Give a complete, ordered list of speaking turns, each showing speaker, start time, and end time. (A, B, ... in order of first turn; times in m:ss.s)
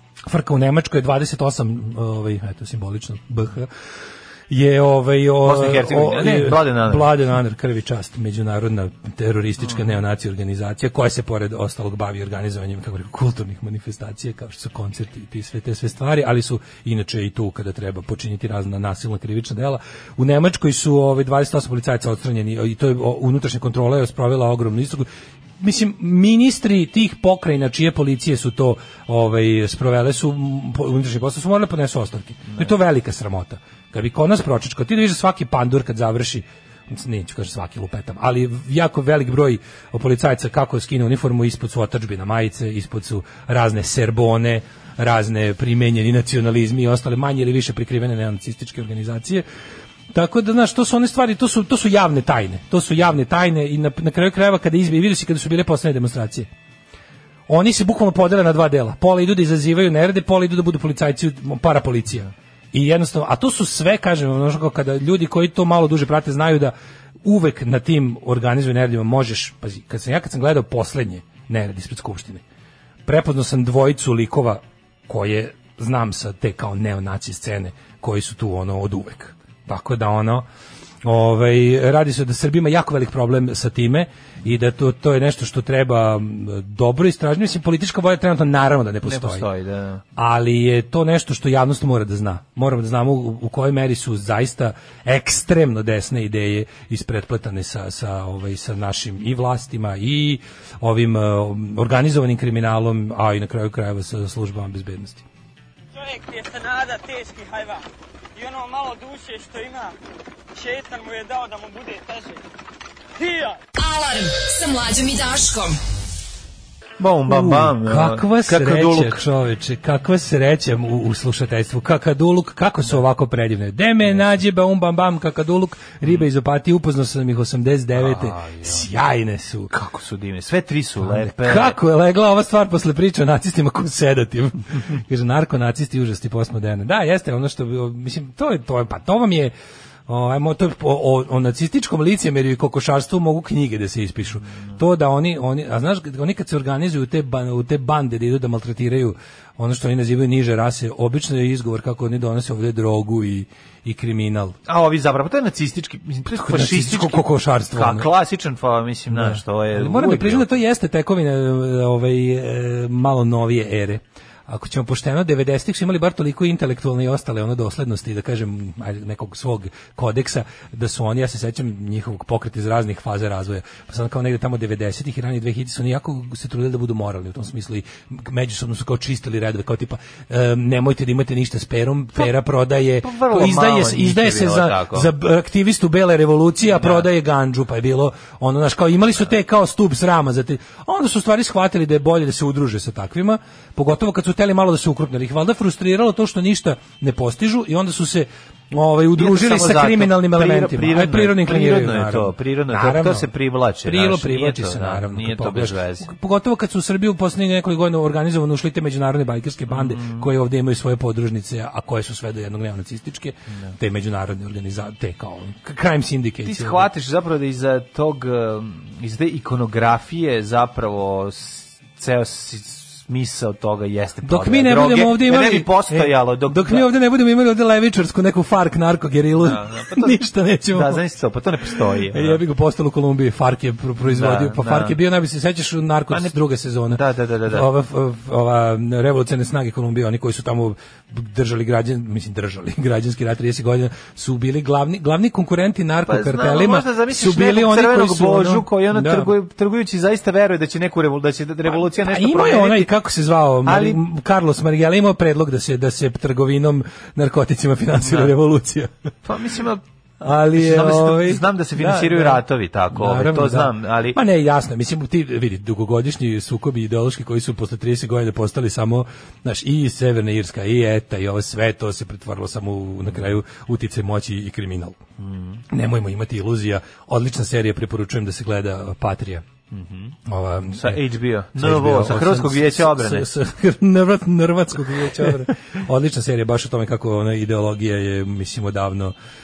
0:00.3-0:03.7 A
0:04.5-0:25.1 A
0:05.4-0:07.1 B
0:25.6-0:49.4 A
0:50.1-0:56.5 A
0:57.5-1:06.7 A
1:07.2-1:12.4 A
1:13.0-1:20.4 A
1:21.0-1:29.4 A
1:29.0-1:30.0 B
1:30.2-1:45.2 A
1:45.9-1:47.8 C
1:48.4-1:49.9 C
1:50.5-1:52.4 C
1:53.2-1:53.6 C
1:53.8-1:55.8 D
1:57.0-1:59.2 B
1:57.3-2:09.7 A
2:07.9-2:08.9 B
2:09.7-2:11.8 B
2:11.0-2:19.5 A
2:20.1-2:34.6 A
2:34.6-2:40.5 B
2:36.3-2:38.1 A
2:39.1-3:23.3 A
3:03.0-3:05.1 B
3:06.6-3:07.1 B
3:19.1-3:26.1 B
3:23.8-3:36.9 A
3:29.7-3:30.3 B
3:36.4-3:46.9 B
3:44.2-3:51.0 A
3:49.4-3:50.2 B
3:50.7-3:52.4 B
3:52.1-4:09.3 A
3:54.0-3:55.0 B
3:56.9-3:57.7 B
4:06.0-4:12.9 B
4:11.8-4:18.9 A
4:13.6-4:14.0 B
4:18.0-4:18.3 B
4:19.2-4:19.8 B
4:20.2-4:35.0 A
4:20.5-4:24.2 B
4:35.2-4:35.6 B
4:35.7-4:39.4 A
4:39.7-4:40.2 B
4:40.2-4:41.0 A
4:40.7-4:43.3 B
4:41.5-4:49.1 A